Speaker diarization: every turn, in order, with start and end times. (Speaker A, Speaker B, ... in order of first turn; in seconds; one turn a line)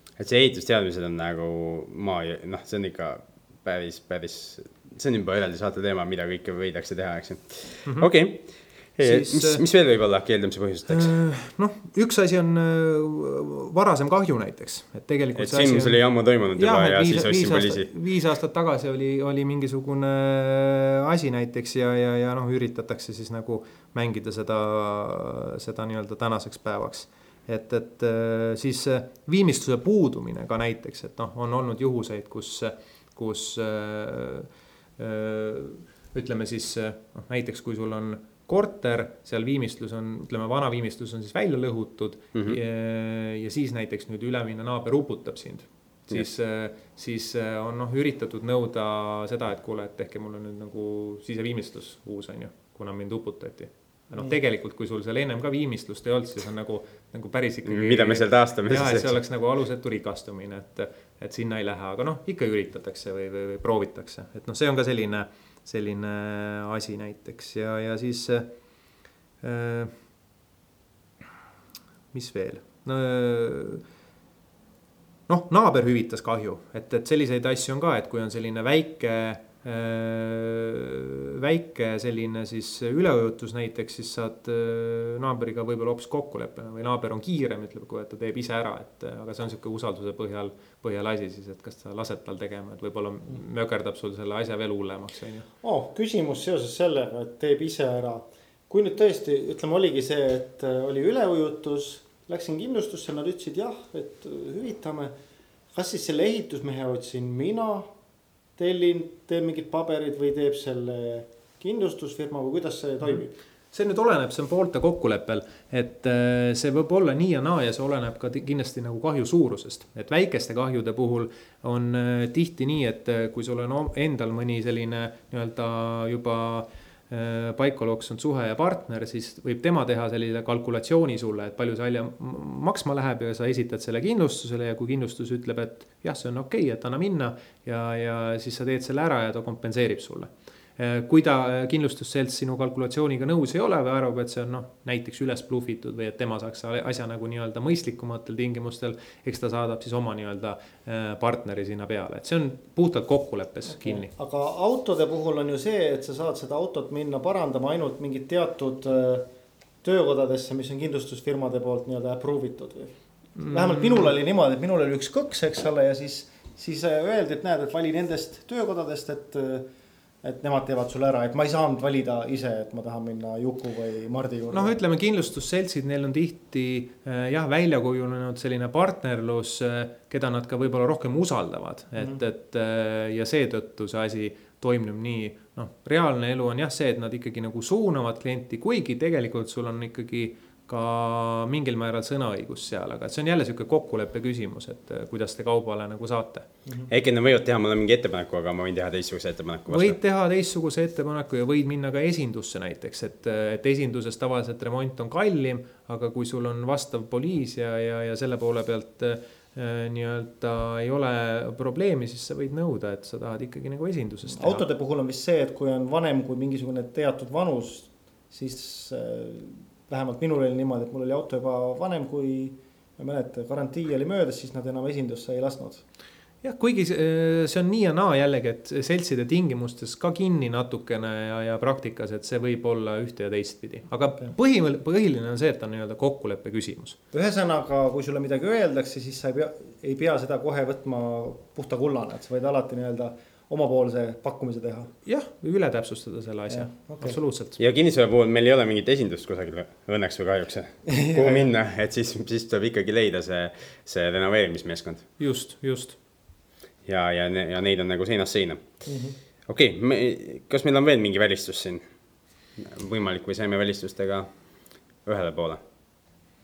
Speaker A: 0.2-11.2
Speaker B: 9.0-9.6
Speaker B: 10.9-16.0
Speaker A: 15.4-17.9
Speaker B: 16.6-68.6
Speaker A: 57.7-59.2
Speaker B: 69.4-70.0
Speaker B: 72.1-73.8
Speaker B: 75.3-95.5
Speaker C: 95.6-105.1
Speaker C: 105.7-107.9
Speaker C: 108.6-113.4
Speaker B: 113.7-154.1
Speaker C: 153.8-159.3
Speaker C: 159.8-169.7
Speaker B: 163.4-164.1
Speaker C: 170.2-174.8
Speaker B: 174.5-196.5
Speaker A: 196.9-200.0
Speaker B: 199.7-214.6
Speaker C: 214.3-225.8
Speaker B: 226.4-237.0
Speaker C: 237.1-244.9
Speaker B: 245.1-247.6
Speaker C: 246.5-247.2
Speaker A: 247.6-255.1
Speaker C: 250.9-251.5
Speaker B: 255.2-256.0
Speaker A: 256.9-258.8
Speaker C: 258.9-259.1
Speaker A: 259.5-261.8
Speaker A: 262.6-264.3
Speaker A: 265.1-265.6